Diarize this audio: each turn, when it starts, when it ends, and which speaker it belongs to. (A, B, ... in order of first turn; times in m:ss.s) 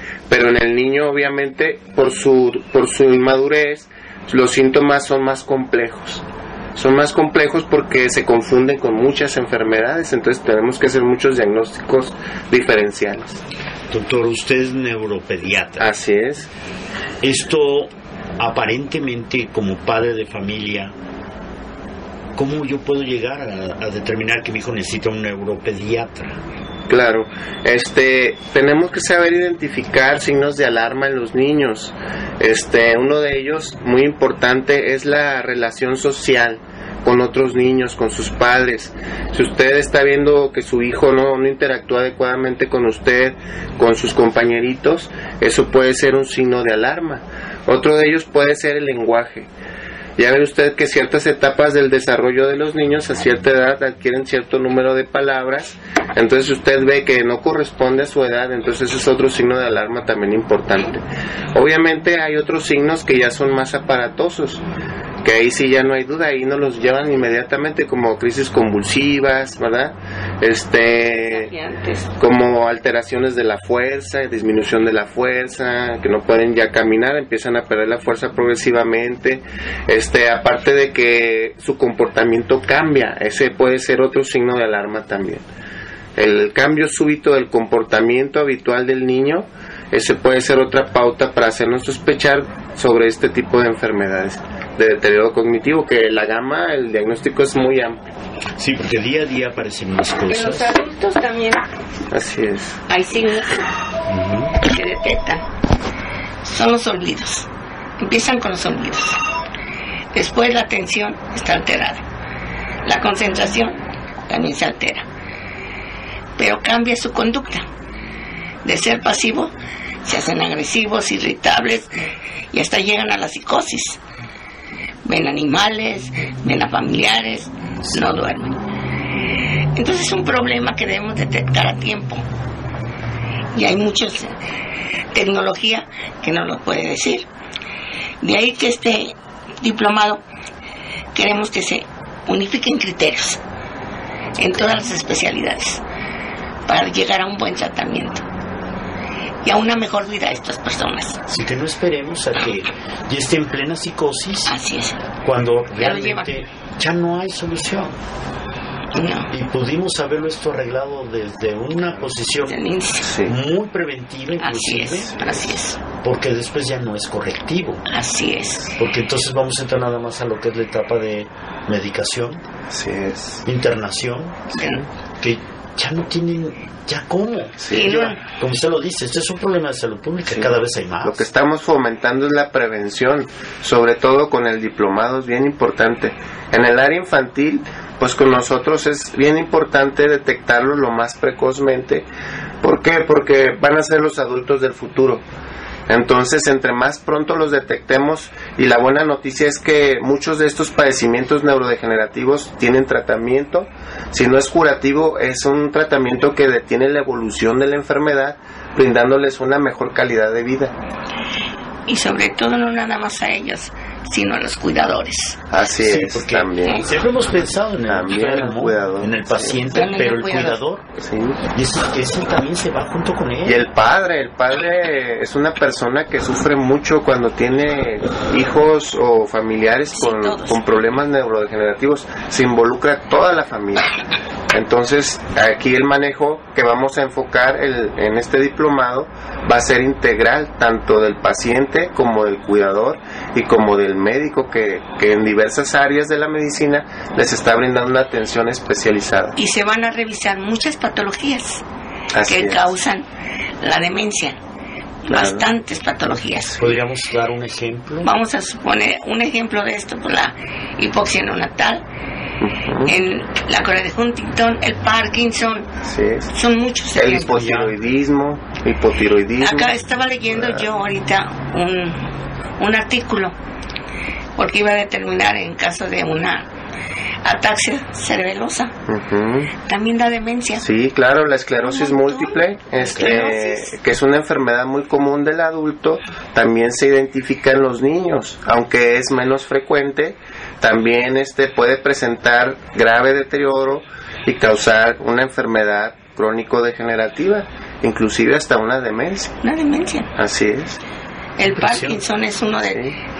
0:00.3-0:13.4 A
0:13.9-0:15.9 B
0:15.8-0:16.5 A
0:17.2-0:20.9 B
0:22.4-0:26.4 B
0:26.9-0:49.5 A
0:50.2-1:04.6 A
1:05.2-1:11.5 A
1:11.1-1:12.1 C
1:12.2-1:25.4 A
1:26.2-1:38.0 A
1:38.6-1:40.7 B
1:40.3-1:41.6 C
1:42.1-1:42.8 A
1:42.9-1:43.6 C
1:44.1-1:44.6 B
1:44.5-1:45.4 C
1:46.4-1:47.5 C
1:48.0-1:49.2 C
1:50.1-1:52.0 C
1:52.8-1:53.8 C
1:54.3-1:55.0 C
1:56.4-1:57.6 C
1:58.6-1:59.5 C
2:00.0-2:04.0 C
2:05.0-2:08.6 C
2:07.8-2:08.2 B
2:09.7-2:12.2 C
2:13.5-2:14.3 C
2:15.1-2:17.3 C
2:18.2-2:20.2 C
2:21.1-2:23.4 C
2:24.4-2:25.8 C
2:26.6-2:28.2 C
2:29.4-2:31.2 C
2:31.3-2:34.6 B
2:34.5-2:35.0 C
2:35.2-2:37.9 B
2:35.8-2:36.3 C
2:38.9-2:39.3 C
2:39.3-2:42.6 B
2:42.5-2:43.1 C
2:43.0-2:43.3 A
2:43.2-2:47.8 B
2:44.4-2:45.8 C
2:47.9-2:48.7 C
2:48.8-2:52.4 B
2:52.7-2:53.4 A
2:53.4-2:54.5 B
2:54.6-2:54.8 C
2:55.2-3:01.2 B
2:57.6-2:57.9 A
2:57.7-2:58.2 C
3:00.3-3:12.1 A
3:12.6-3:15.2 A
3:15.9-3:30.7 A
3:31.9-3:35.4 C
3:35.5-3:36.8 A
3:35.8-3:40.8 B
3:37.9-3:39.7 A
3:39.7-3:40.6 C
3:41.0-3:41.4 A
3:41.5-3:43.6 B
3:43.4-3:53.9 A
3:49.9-3:50.6 C
3:54.5-4:09.4 A
4:09.4-4:11.6 C
4:12.1-4:12.7 A
4:12.3-4:13.0 C
4:13.6-4:14.4 C
4:15.0-4:16.8 C
4:15.1-4:15.5 A
4:16.6-4:18.1 B
4:18.0-4:21.8 C
4:22.4-4:23.0 A
4:22.8-4:25.7 C
4:25.8-4:26.3 A
4:26.3-4:27.5 C
4:26.9-4:30.6 A
4:27.3-4:27.7 B
4:29.4-4:32.0 C
4:32.6-4:33.3 C
4:34.4-4:36.4 C
4:37.2-4:38.7 C
4:38.9-4:39.5 A
4:39.6-4:40.6 C
4:40.6-4:59.3 A
4:41.6-4:43.7 C
4:42.8-4:43.2 B
4:59.4-5:00.1 C
5:00.1-5:00.8 A
5:01.4-5:02.9 C
5:01.4-5:02.0 B
5:02.7-5:03.0 A